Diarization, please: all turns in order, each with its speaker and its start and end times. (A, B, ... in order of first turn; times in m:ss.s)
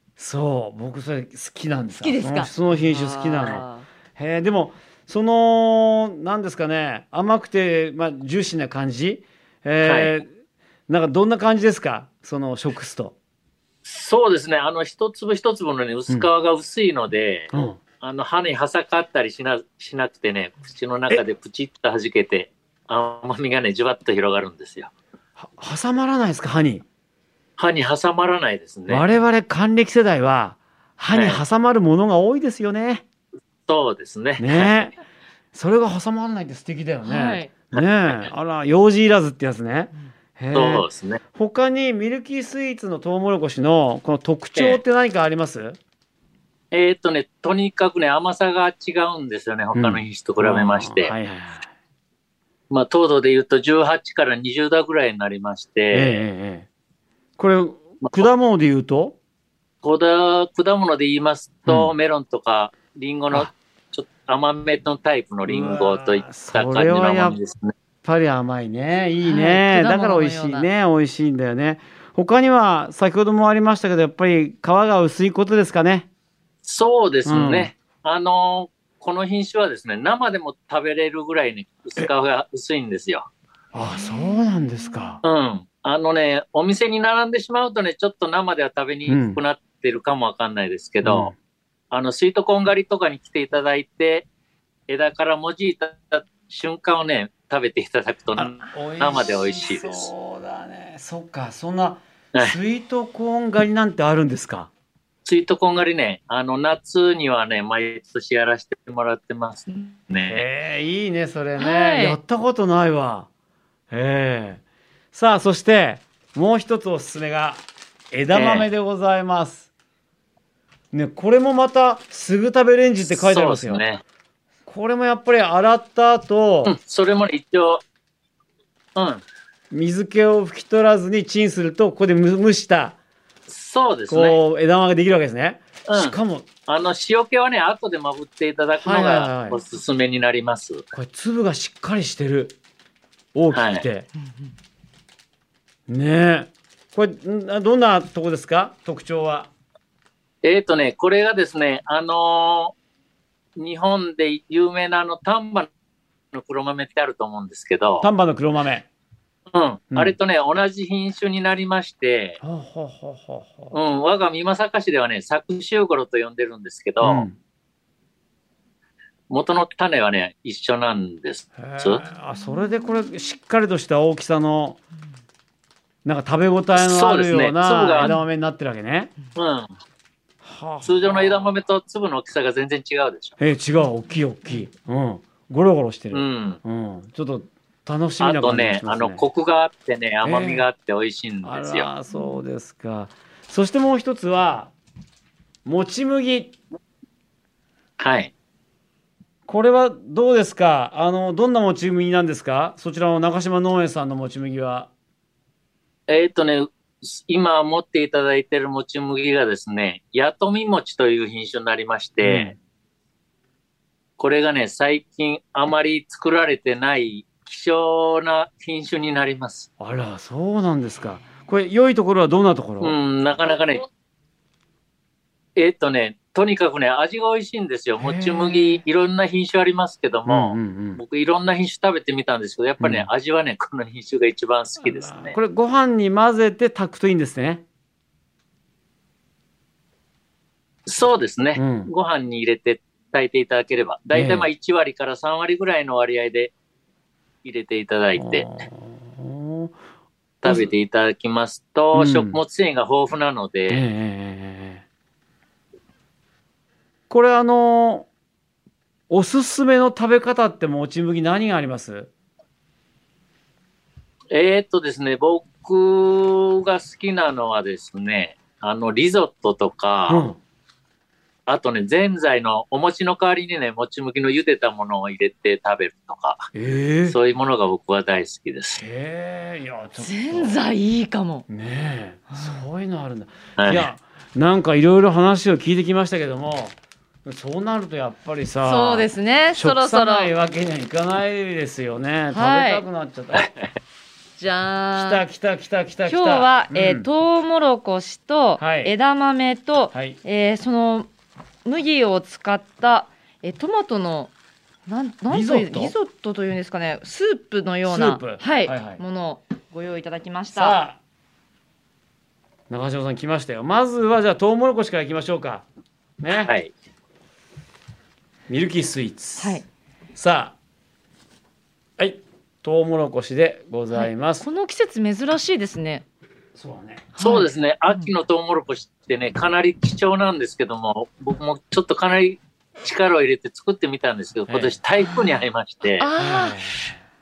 0:00.2-0:10.3 A
0:02.0-0:03.9 B
0:09.8-0:10.2 C
0:10.9-0:13.2 A
0:13.8-0:24.9 C
0:17.5-0:17.8 A
0:25.4-0:26.8 A
0:27.6-0:29.1 C
0:28.9-0:33.0 A
0:31.1-0:31.4 C
0:33.7-0:34.9 C
0:34.4-0:34.9 A
0:35.5-0:45.8 A
0:37.0-0:37.6 B
0:37.7-0:38.3 C
0:40.5-0:41.2 C
0:44.6-0:44.8 C
0:46.7-0:51.2 C
0:49.8-0:51.7 A
0:52.7-0:56.2 C
0:55.9-0:56.7 A
0:57.4-0:59.2 A
0:59.8-1:07.7 C
1:01.7-1:01.9 A
1:05.5-1:07.4 A
1:08.0-1:16.1 A
1:09.2-1:10.7 B
1:16.6-1:23.3 C
1:17.2-1:17.7 A
1:23.7-1:25.2 A
1:24.0-1:24.4 B
1:25.2-1:31.3 C
1:29.1-1:29.4 A
1:31.0-1:31.4 A
1:31.9-1:34.3 C
1:34.9-1:40.1 C
1:38.4-1:44.7 A
1:45.2-1:50.4 C
1:50.3-1:53.3 A
1:51.6-1:52.2 B
1:53.9-1:54.6 A
1:55.1-1:59.7 A
1:58.3-1:58.7 C
2:00.9-2:03.8 A
2:03.0-2:04.0 C
2:04.7-2:06.8 A
2:06.6-2:07.8 C
2:09.0-2:09.2 C
2:09.7-2:13.0 A
2:13.5-2:14.4 C
2:14.1-2:16.5 A
2:15.9-2:20.9 C
2:18.8-2:19.6 A
2:20.9-2:22.6 A
2:23.3-2:24.1 A
2:23.5-2:23.8 C
2:25.9-2:29.5 A
2:30.4-2:32.7 C
2:33.6-2:35.7 C
2:36.3-2:38.1 C
2:38.0-2:38.9 A
2:39.5-2:42.4 C
2:42.4-2:43.8 A
2:43.7-2:47.2 C
2:47.0-2:47.4 A
2:49.3-2:52.0 C
2:51.6-2:54.8 A
2:56.0-2:59.1 A
2:56.7-2:58.2 C
2:59.4-2:59.7 C
3:00.4-3:01.5 A
3:00.8-3:03.4 C
3:03.4-3:09.2 A
3:06.1-3:06.6 C
3:08.2-3:11.9 C
3:10.2-3:10.7 A
3:11.4-3:14.7 A
3:12.1-3:12.4 B
3:15.6-3:16.6 A
3:18.0-3:18.3 C
3:19.5-3:24.9 A
3:26.1-3:32.6 C
3:32.2-3:32.6 A
3:34.2-3:39.7 C
3:39.8-3:43.0 A
3:42.8-3:43.9 C
3:45.6-3:55.4 C
3:48.0-3:48.8 A
3:50.3-3:51.0 A
3:52.8-3:53.1 A
3:54.8-3:57.6 A
4:00.9-4:06.5 C
4:01.6-4:01.9 A
4:04.1-4:04.5 A
4:07.4-4:08.5 C
4:08.2-4:09.8 A
4:10.4-4:13.8 C
4:10.4-4:10.7 A
4:11.9-4:12.4 A
4:13.7-4:14.8 A
4:17.1-4:18.1 A
4:19.1-4:22.1 A
4:24.3-4:30.3 C
4:30.1-4:30.4 A
4:31.5-4:36.5 C
4:36.5-4:37.2 A
4:37.1-4:38.8 C
4:38.8-4:40.6 A
4:40.0-4:41.5 B
4:41.5-4:53.5 A
4:42.3-4:42.6 B
4:43.6-4:43.9 C
4:48.6-4:50.3 B
4:52.3-4:52.8 B
4:53.3-4:53.7 C
4:54.4-4:55.2 B
4:54.9-4:57.1 A
4:56.0-5:01.1 B
4:58.6-4:59.0 A
4:59.9-5:00.2 A
5:01.6-5:04.3 B
5:04.9-5:10.8 B
5:05.3-5:05.9 A
5:07.8-5:09.0 A
5:10.5-5:11.0 A
5:12.7-5:15.6 A
5:16.2-5:16.5 A
5:16.4-5:16.7 C
5:18.5-5:19.6 A
5:19.4-5:19.7 B
5:20.2-5:20.6 A
5:22.0-5:24.4 A
5:23.9-5:26.1 B
5:26.6-5:27.1 A
5:27.2-5:28.1 B
5:27.2-5:36.1 C
5:34.5-5:34.8 A
5:35.0-5:35.4 B
5:36.0-5:36.6 B
5:36.2-5:37.0 A